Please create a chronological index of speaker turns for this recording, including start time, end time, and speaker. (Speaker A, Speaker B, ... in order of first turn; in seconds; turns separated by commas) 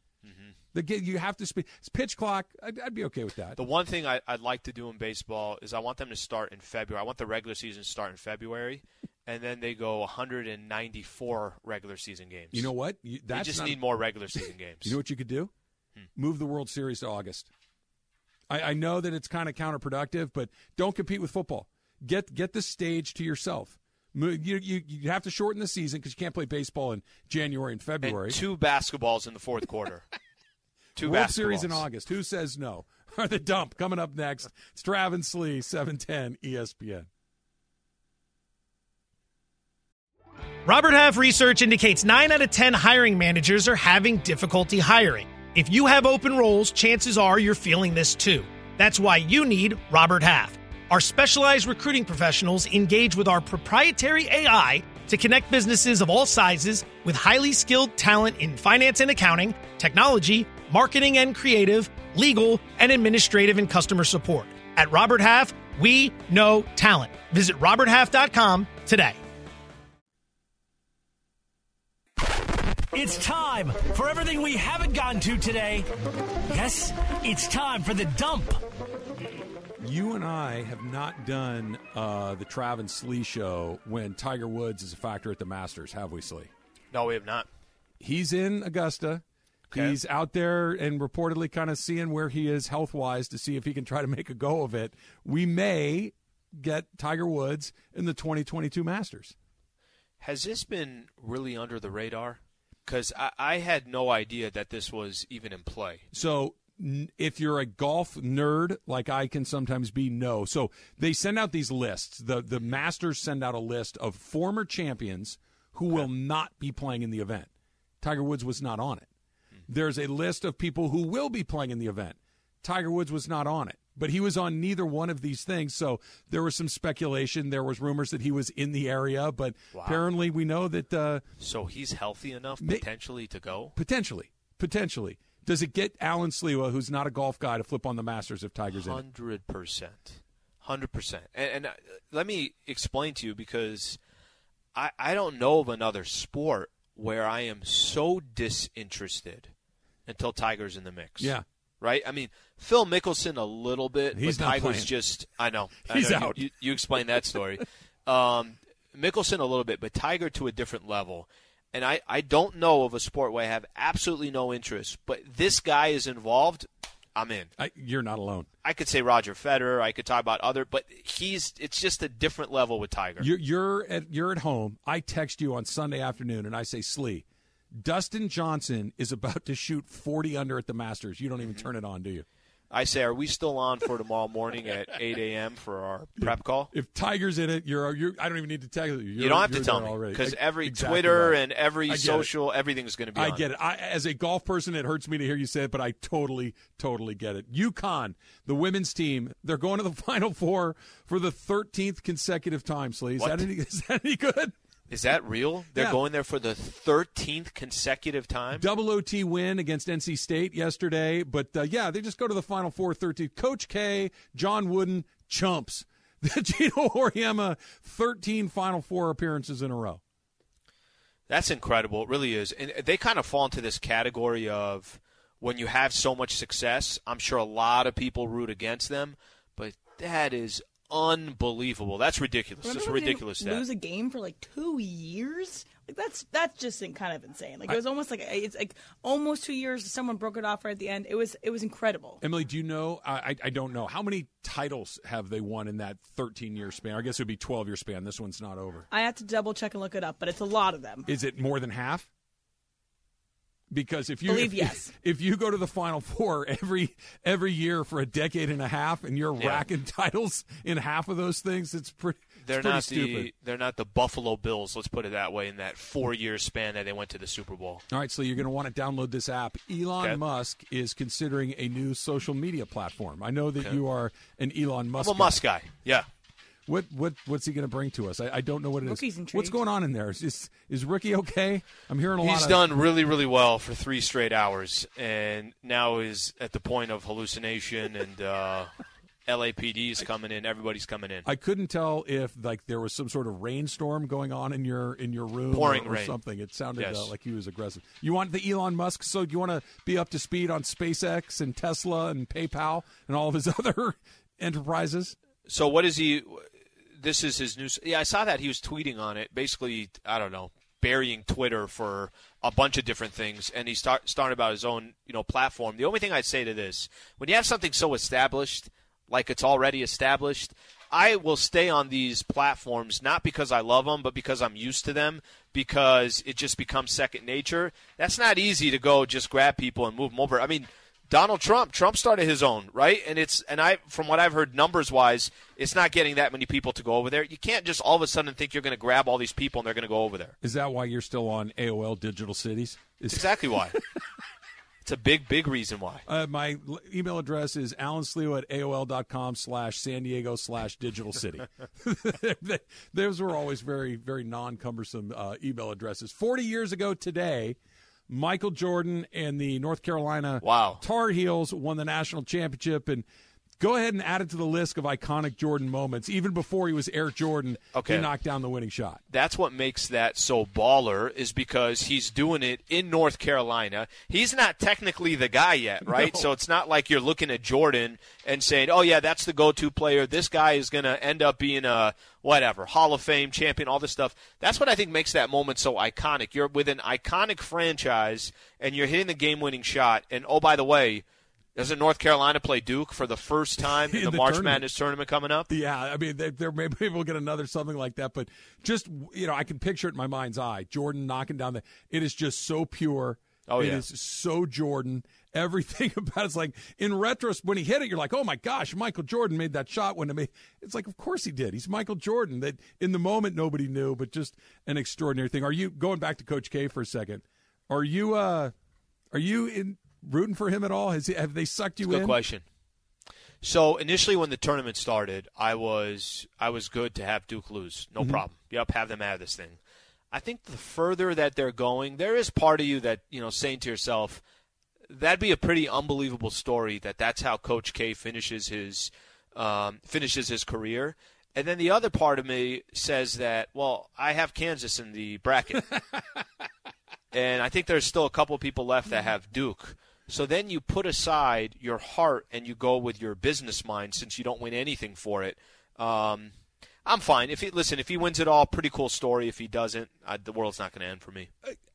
Speaker A: 0.2-0.6, Speaker B: 0.7-3.6, Speaker A: 3.5-12.7, Speaker B: 12.5-15.5, Speaker A: 13.3-15.0, Speaker B: 16.1-17.5, Speaker B: 18.5-28.4, Speaker A: 28.0-30.1, Speaker A: 30.9-31.8, Speaker B: 31.0-37.1, Speaker C: 40.6-69.2, Speaker D: 72.9-75.9, Speaker D: 76.5-78.6, Speaker B: 79.8-86.5, Speaker A: 86.9-87.5, Speaker B: 88.0-99.3, Speaker A: 89.7-90.0, Speaker A: 100.2-106.0, Speaker B: 106.1-117.5, Speaker B: 118.0-119.1, Speaker B: 119.7-131.2, Speaker A: 129.7-130.0, Speaker A: 131.4-133.7, Speaker B: 132.6-132.9, Speaker B: 133.7-139.0, Speaker A: 138.7-144.0, Speaker A: 144.7-149.5, Speaker A: 150.1-167.5, Speaker B: 151.2-151.4, Speaker B: 154.1-154.9, Speaker B: 155.9-156.4, Speaker B: 167.6-168.5, Speaker A: 168.6-173.3, Speaker B: 173.2-182.2, Speaker A: 182.7-186.7, Speaker B: 186.2-192.3, Speaker A: 189.2-193.4, Speaker B: 193.1-204.5, Speaker A: 203.2-203.5, Speaker A: 204.9-208.7, Speaker B: 208.5-220.0, Speaker A: 221.3-233.6, Speaker E: 232.6-242.2, Speaker B: 242.2-248.9, Speaker E: 248.9-251.1, Speaker B: 251.1-252.1, Speaker B: 253.7-263.3, Speaker E: 254.3-254.9, Speaker A: 259.4-259.6, Speaker A: 262.4-267.8, Speaker B: 267.9-275.4, Speaker A: 275.0-276.1, Speaker B: 276.7-282.6, Speaker E: 278.8-279.6, Speaker A: 282.2-288.7, Speaker A: 289.3-291.3, Speaker B: 291.2-305.2, Speaker A: 295.5-296.2, Speaker A: 296.8-297.1, Speaker A: 305.4-340.3, Speaker B: 340.4-344.0, Speaker A: 343.1-343.8, Speaker A: 344.8-346.1, Speaker B: 346.1-357.6, Speaker B: 358.1-363.1, Speaker A: 360.4-360.8, Speaker B: 363.6-369.0, Speaker A: 367.7-368.1, Speaker A: 369.1-391.0, Speaker B: 375.9-376.3, Speaker A: 391.6-395.5, Speaker B: 393.6-394.7, Speaker B: 395.5-418.5, Speaker A: 403.5-403.8, Speaker B: 419.1-422.2, Speaker A: 421.8-422.4, Speaker A: 423.4-429.6, Speaker A: 430.1-434.2, Speaker A: 434.9-445.6, Speaker B: 445.6-446.2, Speaker A: 447.1-456.3, Speaker A: 456.9-461.3